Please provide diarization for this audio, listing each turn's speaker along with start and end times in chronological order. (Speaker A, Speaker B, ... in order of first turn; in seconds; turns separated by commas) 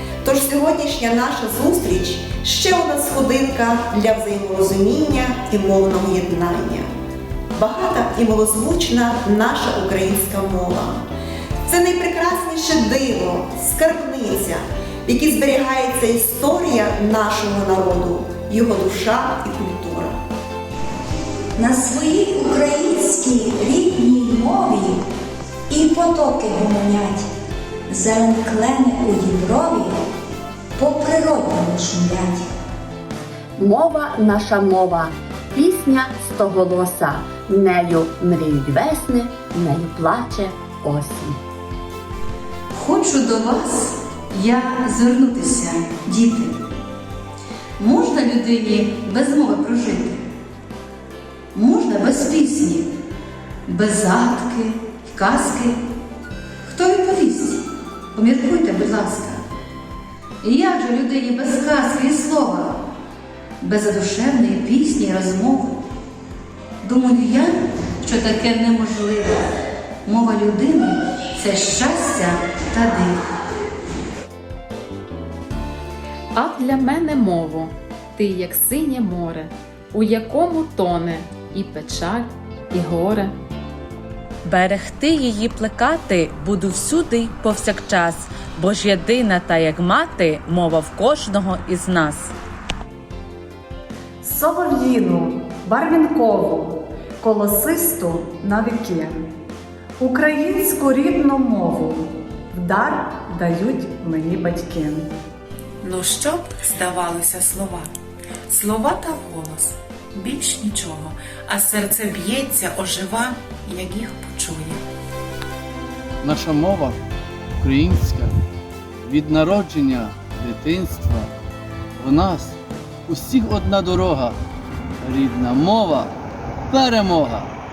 Speaker A: 0.2-6.9, Speaker A: 7.5-11.1, Speaker A: 11.7-20.2, Speaker B: 21.6-25.0, Speaker B: 25.7-27.3, Speaker B: 27.9-30.0, Speaker B: 30.8-32.5, Speaker C: 33.6-41.4, Speaker D: 42.7-46.6, Speaker D: 47.8-50.2, Speaker D: 51.5-52.9, Speaker D: 53.7-55.8, Speaker D: 56.6-57.6, Speaker D: 58.1-59.4, Speaker D: 60.4-62.8, Speaker D: 63.6-65.8, Speaker D: 66.8-69.5, Speaker D: 70.0-73.2, Speaker E: 76.3-83.3, Speaker F: 84.4-92.3, Speaker G: 94.2-99.2, Speaker G: 100.0-105.1, Speaker H: 105.8-107.9, Speaker H: 108.5-114.8, Speaker I: 116.2-117.0, Speaker I: 117.6-118.3, Speaker I: 119.0-121.2, Speaker I: 122.0-122.5, Speaker I: 123.1-124.3, Speaker I: 125.0-126.1, Speaker I: 126.7-127.4